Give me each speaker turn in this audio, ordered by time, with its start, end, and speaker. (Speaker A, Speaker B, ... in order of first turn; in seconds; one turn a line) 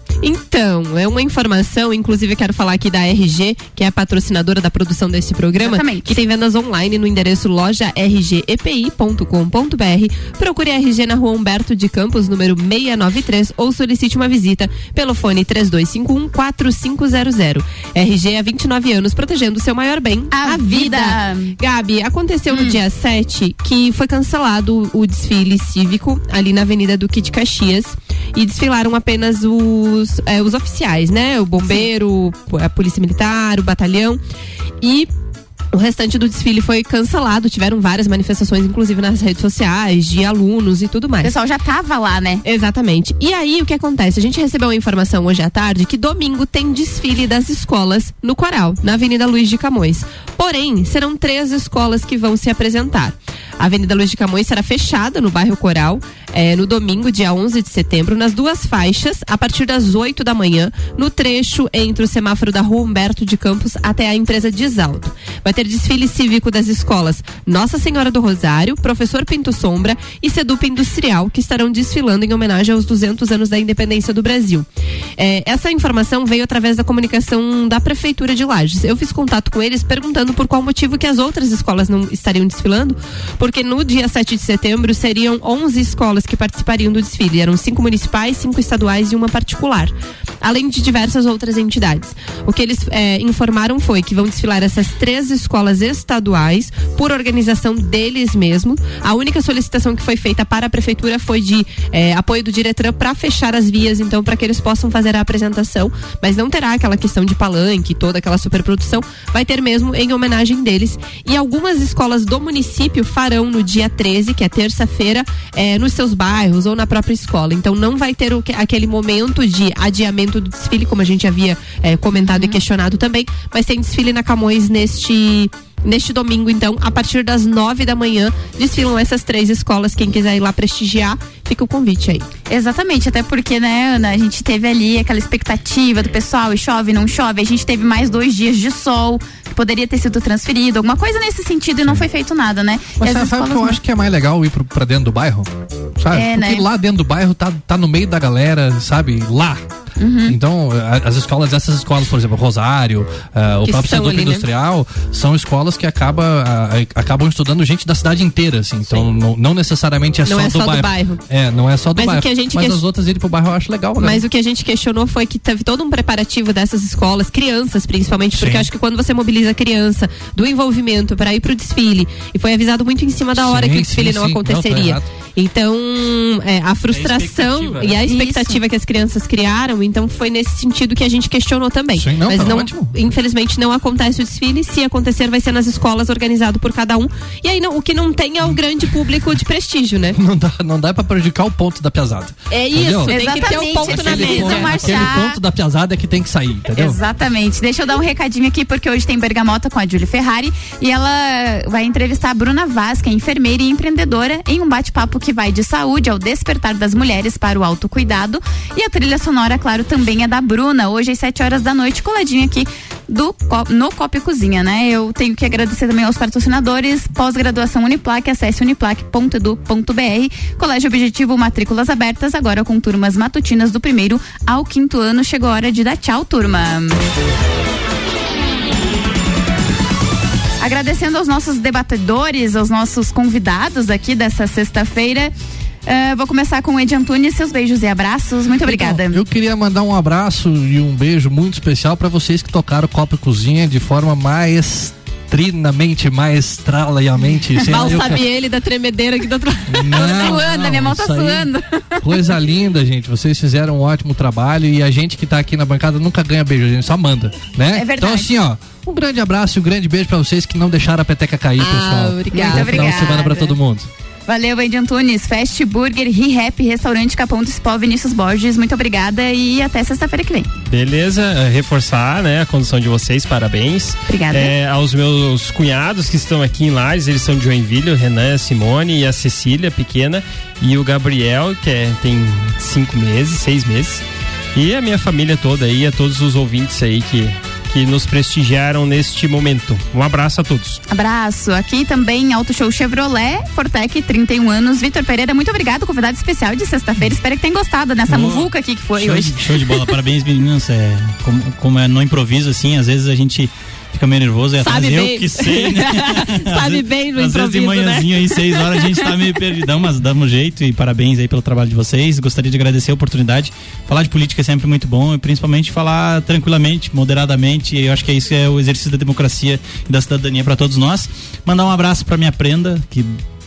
Speaker A: 0.2-34.2
Speaker B: 5.6-6.2
Speaker B: 20.3-21.5
Speaker B: 22.5-22.8
Speaker A: 34.8-35.1
Speaker A: 35.7-41.3
Speaker B: 41.2-42.4
Speaker A: 42.4-132.3
Speaker B: 122.3-122.6
Speaker B: 132.5-143.8
Speaker C: 143.0-149.6
Speaker B: 146.1-146.7
Speaker B: 150.0-150.4
Speaker C: 150.2-164.2
Speaker A: 153.6-154.5
Speaker A: 160.2-161.2
Speaker A: 162.0-162.8
Speaker A: 164.0-190.2
Speaker C: 168.4-168.7
Speaker C: 173.4-175.1
Speaker D: 176.9-178.0
Speaker B: 178.0-178.6
Speaker C: 182.0-182.9
Speaker C: 190.2-197.0
Speaker A: 192.5-195.2
Speaker B: 193.1-195.4
Speaker B: 196.8-227.0
Speaker B: 230.6-235.3
Speaker B: 235.9-239.2
Speaker C: 238.7-248.2
Speaker B: 247.7-248.0
Speaker A: 247.7-250.5
Speaker C: 249.7-251.5
Speaker B: 249.9-252.1
Speaker C: 252.0-263.9
Speaker B: 257.7-258.3
Speaker A: 261.6-263.5
Speaker B: 262.4-263.5
Speaker B: 264.3-270.5
Speaker D: 270.7-290.8
Speaker B: 274.1-274.5
Speaker B: 290.9-299.8
Speaker E: 298.1-323.2
Speaker A: 304.6-308.6